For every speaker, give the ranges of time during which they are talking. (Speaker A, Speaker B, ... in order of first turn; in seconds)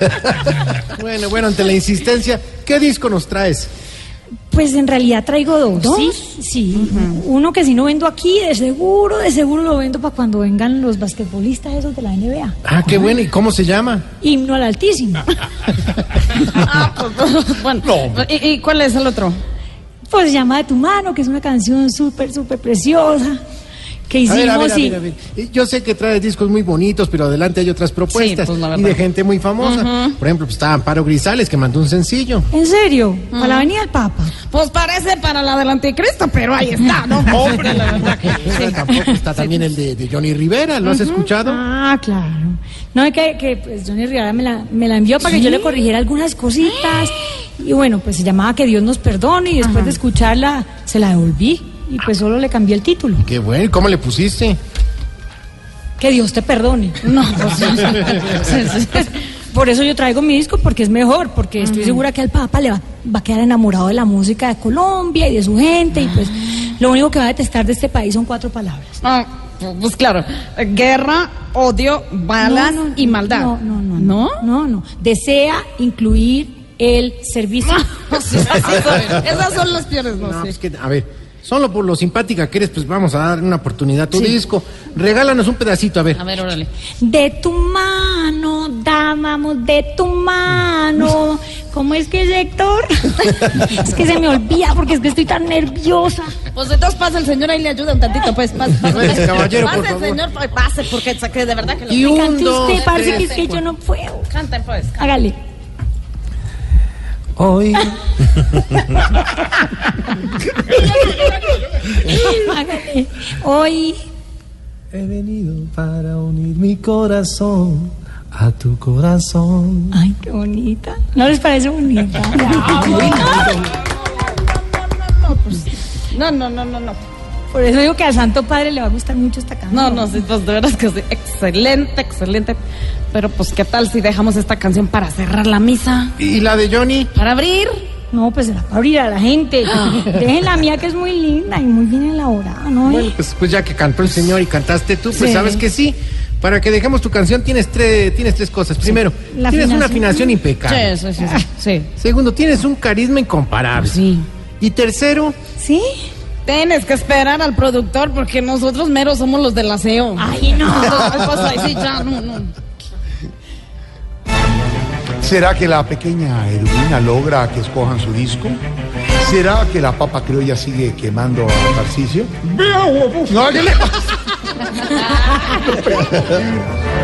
Speaker A: 0.9-3.7, 12.6-14.1, 24.3-32.5, 37.3-41.6, 53.2-54.6, 80.2-86.2, 98.9-100.2, 101.9-103.3, 136.2-137.1, 142.8-150.9, 152.0-154.0, 154.6-155.3
Speaker B: 4.5-12.6, 14.2-15.3, 20.1-23.4, 24.1-25.0, 32.5-34.3, 41.4-53.2, 56.0-69.0, 72.4-79.0, 87.0-96.3, 102.0-104.3, 105.0-105.3, 111.9-114.0, 119.9-123.6, 127.5-130.1, 138.1-143.1, 145.1-145.4, 149.3-150.4, 155.6-156.0, 160.2-161.1
Speaker C: 5.8-6.1, 6.7-7.2, 16.3-19.4, 28.1-29.0, 29.6-30.1, 33.3-33.7, 34.5-39.6, 40.8-41.3, 49.6-50.0, 57.0-58.9, 61.6-62.0, 69.0-74.4, 77.6-80.5, 86.1-86.7, 96.5-103.6, 104.3-105.0, 122.4-127.0, 129.7-132.6, 133.1-136.1, 137.1-137.7, 139.7-140.1, 150.6-151.9, 153.8-154.2, 156.4-162.6
Speaker D: 17.8-18.3, 165.2-168.6, 169.2-172.3, 173.3-174.1, 175.4-176.4
Speaker E: 107.3-107.9, 114.9-119.9
Speaker F: 110.7-111.9, 172.4-173.4